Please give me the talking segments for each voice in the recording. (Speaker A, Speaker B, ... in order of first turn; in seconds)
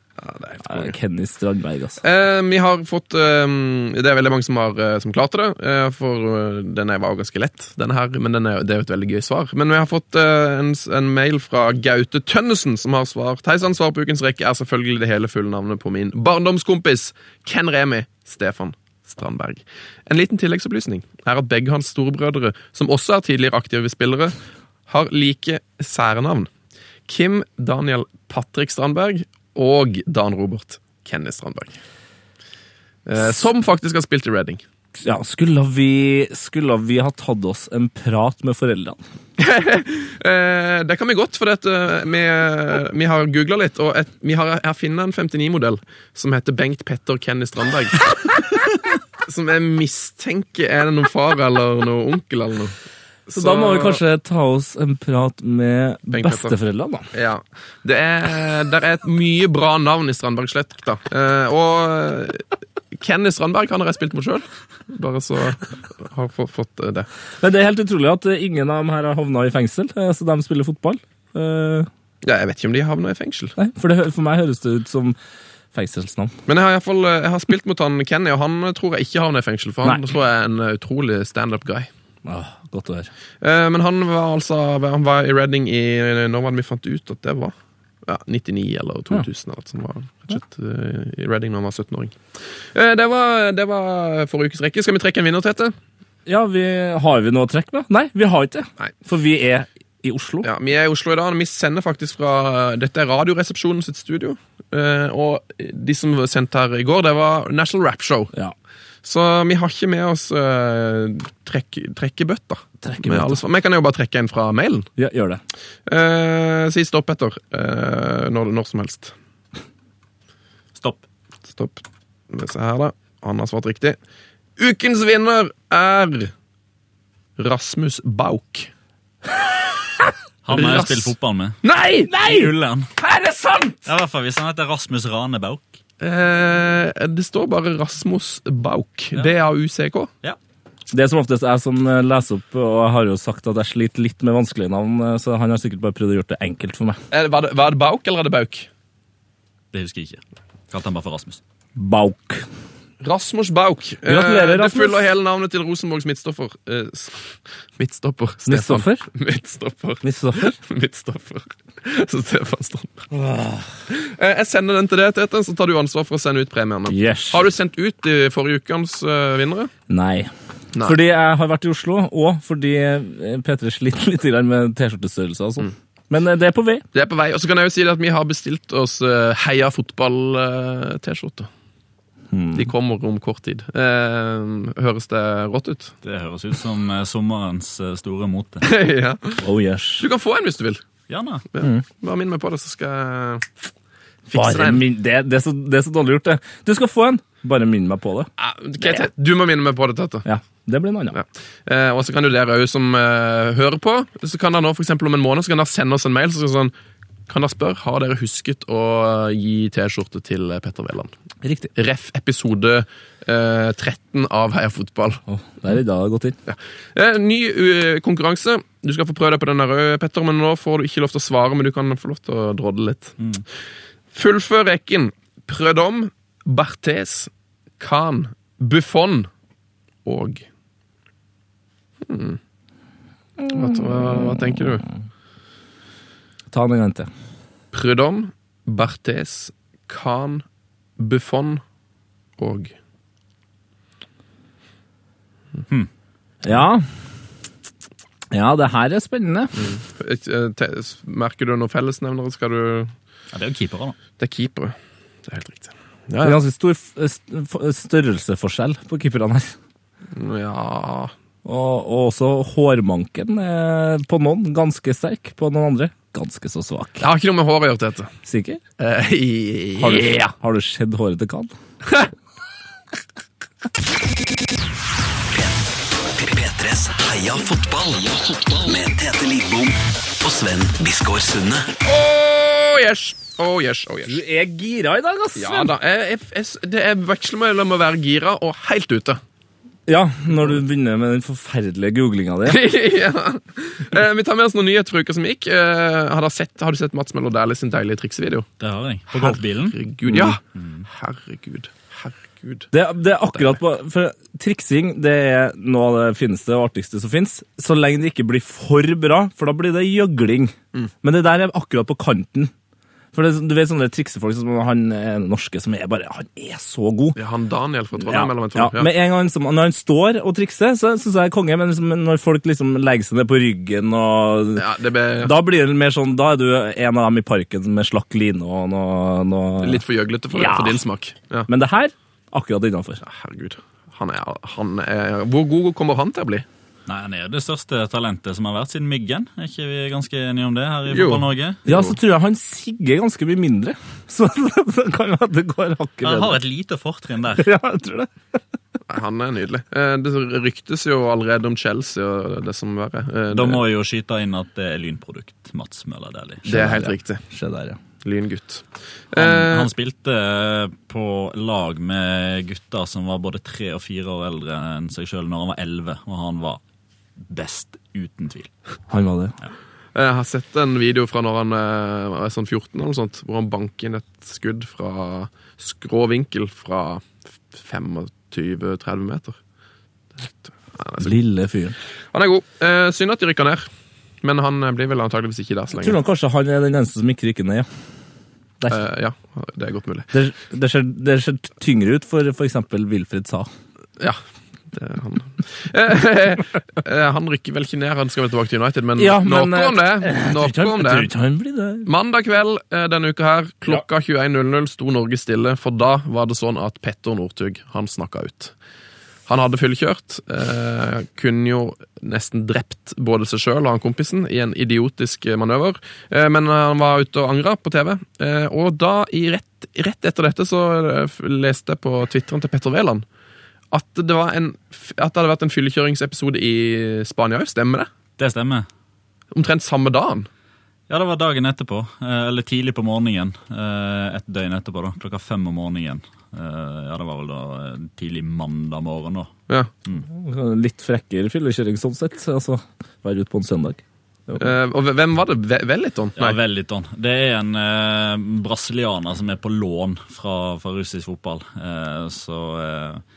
Speaker A: 0.2-0.9, 2.0-26.5, 27.1-31.8, 33.1-34.6, 39.4-48.0, 49.2-54.0, 56.1-56.6, 57.1-67.1, 72.2-73.6, 76.5-81.9, 83.4-95.7, 100.4-108.3, 109.0-114.9, 115.9-119.2, 121.5-124.0, 124.6-126.3, 127.4-128.7, 130.5-131.1, 136.0-140.1, 147.1-148.7, 153.0-163.1, 163.9-169.7, 176.9-181.5, 182.6-185.9, 188.6-189.4, 190.0-190.8, 191.5-193.6, 194.3-194.8, 198.4-200.3, 201.1-206.7, 207.3-211.1, 211.8-215.2, 216.5-223.2, 224.1-229.3, 230.1-230.5, 232.0-232.4, 233.5-234.8, 237.7-240.4, 241.0-241.6, 242.4-242.8, 249.6-252.9, 254.2-256.4, 260.1-261.1, 267.0-268.1, 268.8-270.3, 281.8-284.2, 285.4-289.2, 292.4-298.5, 299.1-302.7, 303.3-303.6, 317.1-318.9, 324.6-325.3, 329.6-331.5, 333.0-336.5, 340.9-342.0, 348.9-353.6, 356.5-357.2, 358.0-359.7, 369.9-379.4, 380.2-381.2, 382.1-383.7, 384.2-386.0, 388.7-390.1, 394.0-401.1, 401.9-408.6, 409.3-423.1, 423.7-427.9, 429.3-430.3, 444.4-446.4
Speaker B: 0.6-2.0, 35.0-39.0, 53.3-57.1, 67.4-71.9, 73.6-75.2, 75.7-76.3, 82.2-83.1, 96.3-100.5, 112.8-113.4, 115.0-115.4, 131.7-133.8, 140.9-147.0, 151.8-152.4, 154.1-155.0, 158.5-159.1, 160.0-160.6, 163.1-163.7, 166.9-167.4, 169.9-170.3, 170.8-176.8, 182.3-182.7, 189.4-190.1, 194.3-198.3, 200.2-201.2, 211.4-211.7, 215.3-216.4, 233.4-234.4, 236.5-237.1, 246.4-246.8, 248.3-249.7, 256.2-259.5, 261.4-267.1, 268.2-268.6, 269.8-271.5, 284.1-285.7, 289.9-292.6, 300.1-300.4, 302.7-312.5, 313.1-317.2, 318.0-324.7, 325.2-330.8, 331.5-333.0, 341.7-346.4, 347.4-348.1, 356.5-357.8, 368.9-369.4, 381.0-381.8, 385.8-387.7, 390.1-393.5, 399.0-401.9, 440.1-444.5
Speaker C: 120.8-121.0, 130.4-131.6, 132.1-132.9, 133.8-135.8, 149.7-151.4, 186.0-188.7, 191.1-191.4, 253.3-254.0, 298.6-299.8, 300.6-300.9, 336.9-341.6, 346.0-347.5, 353.3-356.6, 359.1-366.6, 367.2-368.5, 428.2-428.7, 430.9-439.3, 446.2-453.0
Speaker D: 275.3-281.7